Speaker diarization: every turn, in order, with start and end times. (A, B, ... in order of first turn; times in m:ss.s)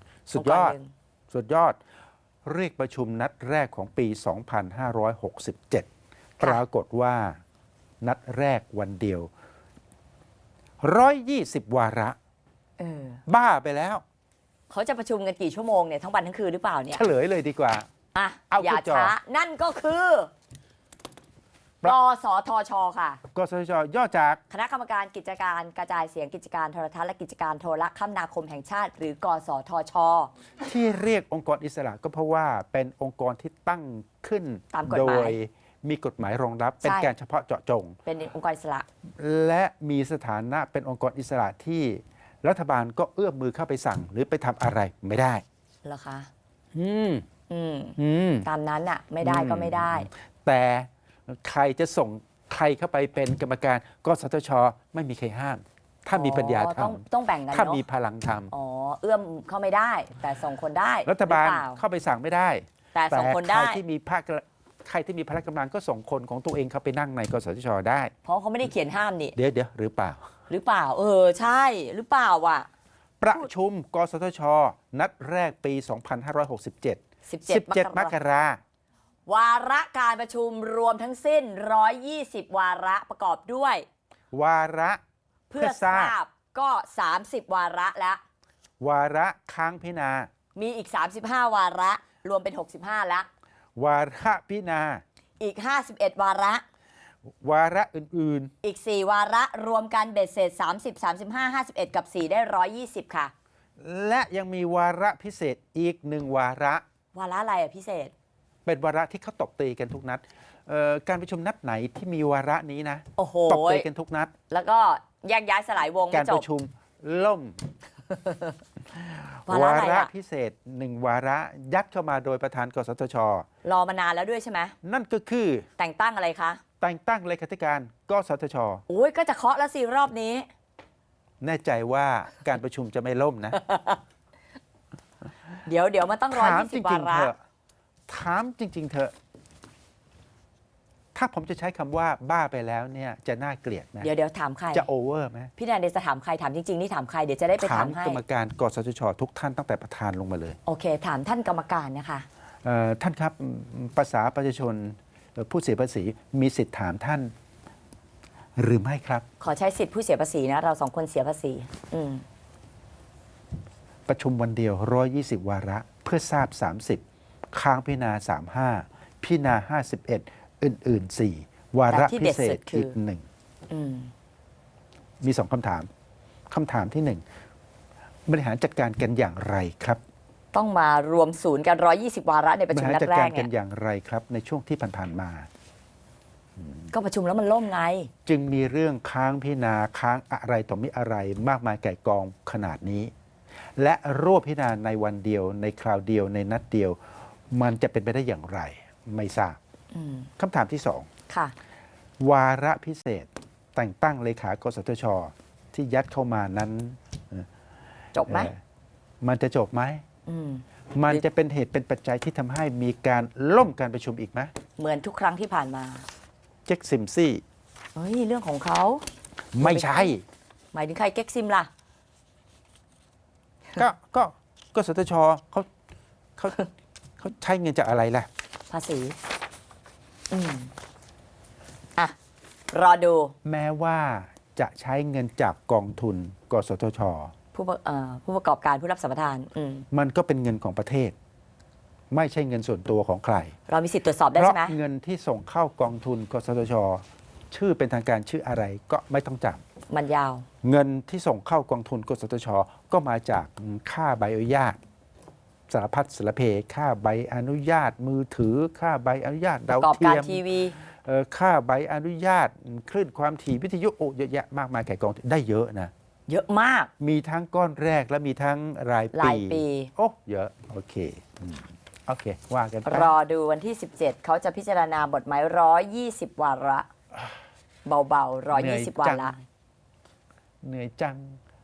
0:00.3-0:00.8 A
0:00.3-0:00.9 B
0:01.3-0:01.8 A
0:02.4-0:05.9 A
0:06.4-0:07.4 A
0:08.0-0:09.3 A
0:10.8-0:12.2 A
0:12.8-0:13.2 B
0:13.3-0:14.0 A
0:14.7-0:17.1 B
0:16.9-0:17.9 A
0:18.1-0:20.3 B
0:18.5-0:19.1 A
0:21.8-0:23.2 B
0:23.3-0:24.4 A
0:24.5-0:30.3 B
0:30.6-0:38.0 A
0:34.7-0:35.4 B
0:36.8-0:37.1 B
0:38.1-0:38.9 B
0:39.2-0:45.4 A
0:45.8-0:46.3 B
0:46.8-0:47.3 A
0:47.5-0:50.1 B
0:48.0-0:48.5 A
0:49.2-0:58.5 A
0:56.1-0:57.8 B
0:58.5-1:01.8 B
1:01.1-1:08.1 A
1:03.0-1:03.8 B
1:08.2-1:09.4 B
1:09.4-1:10.3 A
1:10.5-1:12.7 B
1:13.2-1:18.6 A
1:17.3-1:18.2 B
1:19.3-1:23.9 B
1:24.3-1:25.0 A
1:25.5-1:28.2 B
1:25.6-1:26.2 A
1:28.8-1:30.3 A
1:30.6-1:33.3 B
1:33.8-1:35.0 A
1:35.4-1:36.6 B
1:37.3-1:38.5 A
1:38.6-1:43.3 B
1:43.8-1:46.8 A
1:47.1-1:48.1 B
1:48.7-1:54.3 A
1:53.2-1:53.9 B
1:54.5-1:56.4 B
1:56.1-1:57.6 A
1:58.1-1:58.6 B
1:59.5-2:00.1 B
1:59.5-2:03.5 A
2:03.6-2:04.8 B
2:04.8-2:05.7 A
2:05.8-2:06.6 B
2:06.8-2:08.8 A
2:08.9-2:10.5 B
2:11.4-2:13.6 A
2:13.5-2:14.0 B
2:15.7-2:17.3 B
2:16.3-2:17.4 A
2:18.1-2:19.1 A
2:21.2-2:24.1 A
2:24.0-2:24.9 B
2:24.7-2:25.5 A
2:25.6-2:28.2 B
2:27.6-2:30.6 A
2:30.6-2:32.3 B
2:32.6-2:37.3 A
2:38.6-2:39.2 A
2:39.4-2:42.2 B
2:44.1-2:53.3 A
2:51.9-2:53.0 B
2:53.7-2:54.1 B
2:55.2-2:55.9 A
2:56.5-2:57.2 A
2:58.3-3:00.0 A
3:00.5-3:03.5 B
3:02.7-3:05.5 A
3:06.9-3:08.1 B
3:08.3-3:13.1 A
3:13.8-3:17.0 A
3:17.5-3:19.6 A
3:19.9-3:20.3 B
3:20.4-3:21.1 A
3:21.3-3:21.6 B
3:22.2-3:27.5 A
3:28.1-3:28.5 B
3:28.3-3:28.6 A
3:29.2-3:30.0 A
3:30.3-3:31.2 B
3:31.0-3:34.5 A
3:34.8-3:36.1 B
3:36.7-3:37.4 A
3:38.0-3:39.0 B
3:39.5-3:40.2 A
3:39.6-3:40.1 B
3:40.7-3:41.7 B
3:43.8-3:45.7 A
3:46.4-3:46.7 A
3:47.2-3:48.3 A
3:48.7-3:49.2 B
3:50.3-3:50.7 B
3:52.7-3:53.3 B
3:53.4-3:57.3 A
3:57.5-3:59.9 B
3:59.9-4:01.2 A
4:02.1-4:03.6 A
4:03.7-4:04.8 B
4:04.4-4:09.6 A
4:09.9-4:10.5 B
4:10.6-4:14.8 A
4:15.7-4:25.9 A
4:19.8-4:20.8 B
4:26.3-4:26.9 B
4:27.0-4:33.1 A
4:29.1-4:29.9 B
4:32.8-4:36.9 B
4:37.8-4:39.4 B
4:38.5-4:39.4 A
4:40.6-4:41.4 A